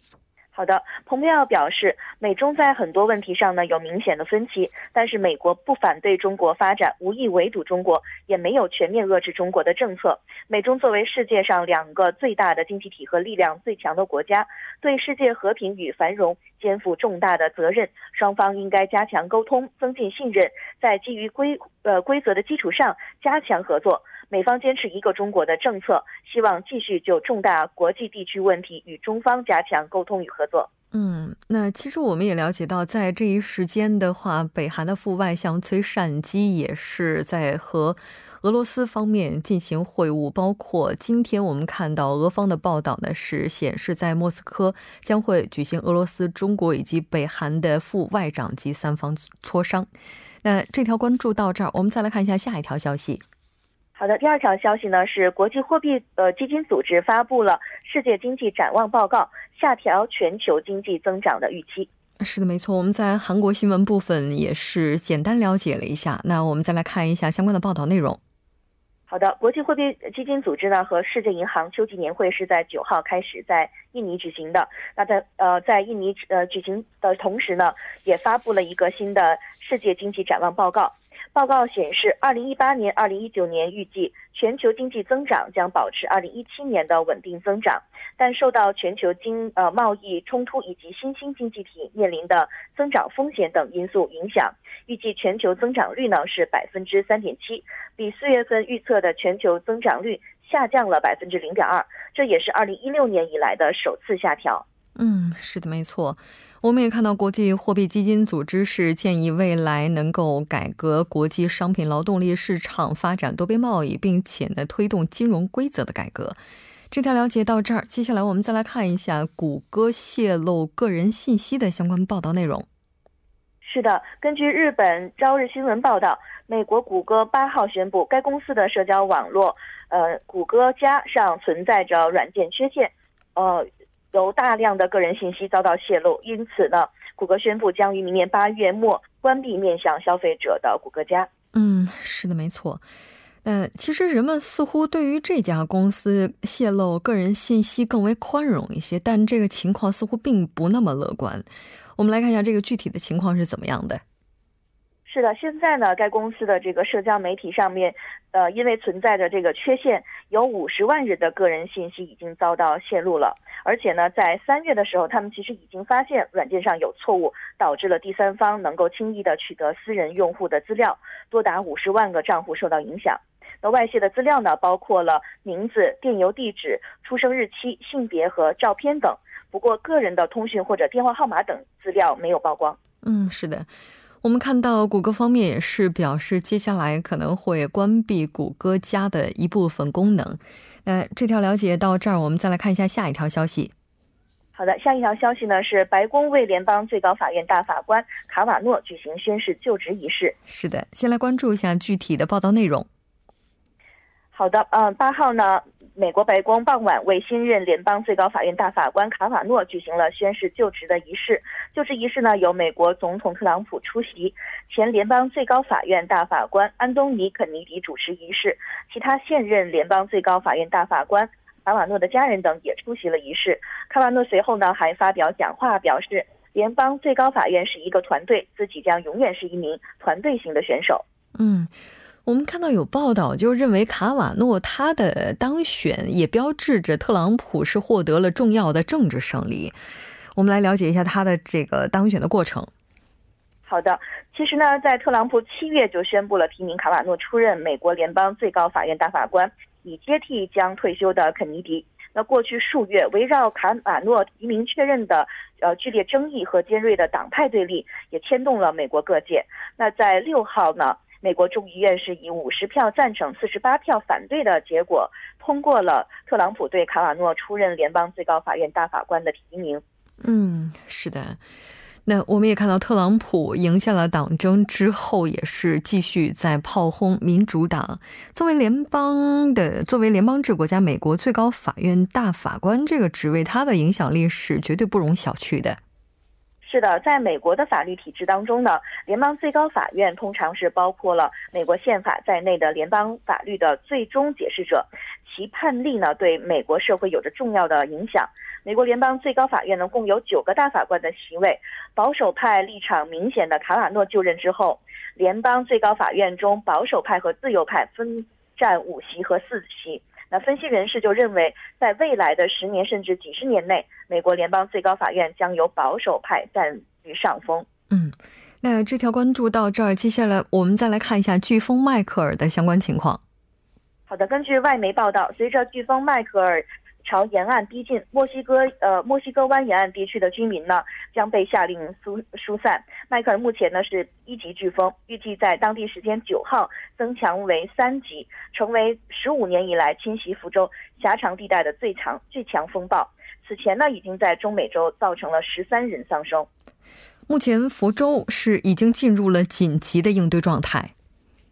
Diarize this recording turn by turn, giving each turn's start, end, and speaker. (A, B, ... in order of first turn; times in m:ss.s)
0:00.5-0:30.7 A
0:30.9-0:49.9 B
0:50.4-0:53.2 B
0:54.0-1:01.9 A
1:02.2-1:08.2 B
1:09.1-1:44.6 A
1:45.0-1:56.4 B
1:56.9-2:02.7 B
2:03.6-2:21.3 A
2:21.5-2:22.8 B
2:23.4-2:34.0 B
2:35.1-3:02.8 A
3:03.0-3:03.7 B
3:04.2-3:13.7 B
3:14.5-3:20.4 A
3:20.5-3:22.9 B
3:24.3-3:51.0 A
3:51.4-3:51.7 B
3:52.3-3:59.8 B
4:00.4-4:02.7 B
4:03.7-4:29.8 A
4:30.2-4:31.4 B
4:32.1-4:45.8 B
4:46.6-5:17.7 A
5:17.9-5:23.2 B
5:24.1-5:46.5 A
5:47.3-5:50.9 B